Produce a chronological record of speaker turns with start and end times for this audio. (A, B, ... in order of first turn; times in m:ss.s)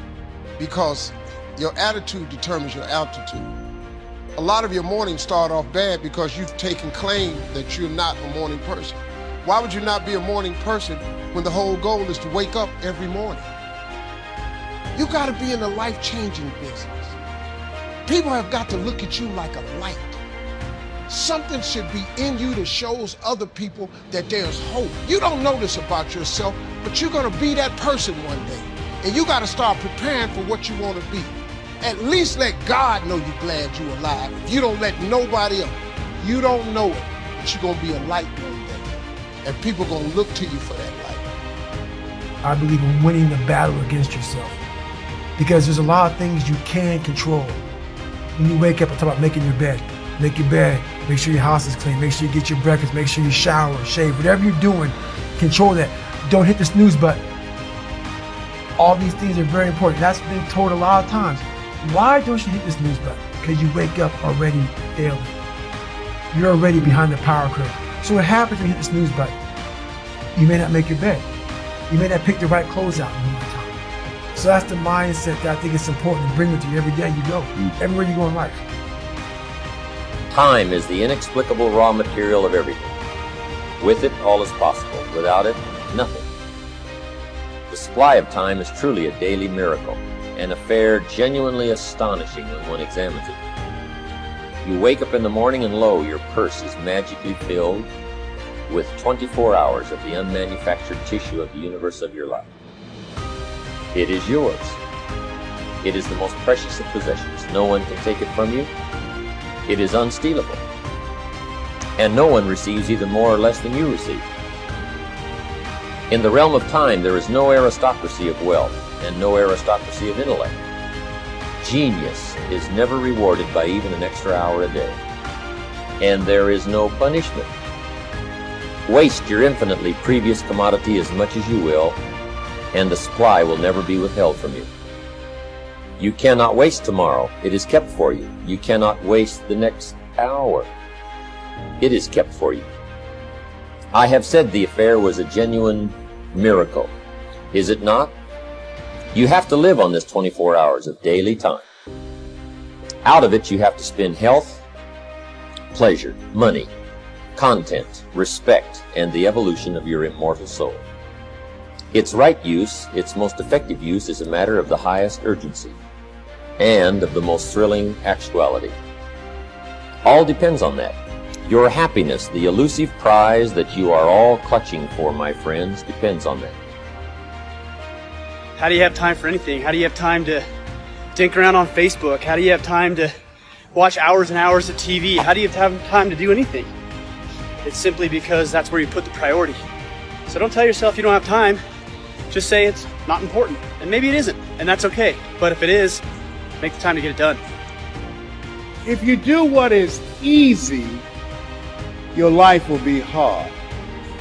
0:00.6-0:03.5 A
0:04.4-0:13.5 A
0:15.0-0:17.2 A
0:18.0-0:20.2 A
0:21.1-0:38.9 A
0:39.4-0:41.3 A
0:42.4-0:44.6 B
0:45.4-0:47.6 B
0:48.4-0:57.2 B
0:58.8-1:05.3 B
1:06.3-1:09.3 B
1:10.4-1:11.2 B
1:11.9-1:13.8 B
1:14.3-1:18.6 B
1:20.3-1:22.9 C
1:23.8-1:26.2 C
1:27.7-1:33.4 C
1:34.6-1:37.9 C
1:38.7-1:42.4 C
1:43.9-1:44.8 C
1:45.8-1:48.7 C
1:49.7-1:50.6 C
1:52.0-1:54.2 C
1:56.1-2:00.5 C
2:01.6-2:05.0 C
2:06.0-2:07.5 C
2:08.8-2:12.0 C
2:12.7-2:14.7 C
2:16.0-2:20.7 C
2:19.9-2:20.4 B
2:21.8-2:22.7 C
2:23.9-2:26.9 C
2:27.5-2:28.1 C
2:29.1-2:31.6 C
2:33.0-2:34.5 C
2:35.7-2:36.6 C
2:36.2-2:36.7 B
2:37.4-2:40.8 C
2:41.9-2:45.7 C
2:43.4-2:43.7 B
2:46.6-2:48.7 C
2:50.0-2:51.0 C
2:51.5-2:56.5 C
2:58.6-3:00.4 D
3:01.1-3:03.1 D
3:03.7-3:06.7 D
3:07.6-3:09.6 D
3:10.3-3:11.6 D
3:12.3-3:16.0 D
3:16.6-3:17.4 D
3:18.8-3:21.0 E
3:22.1-3:23.5 E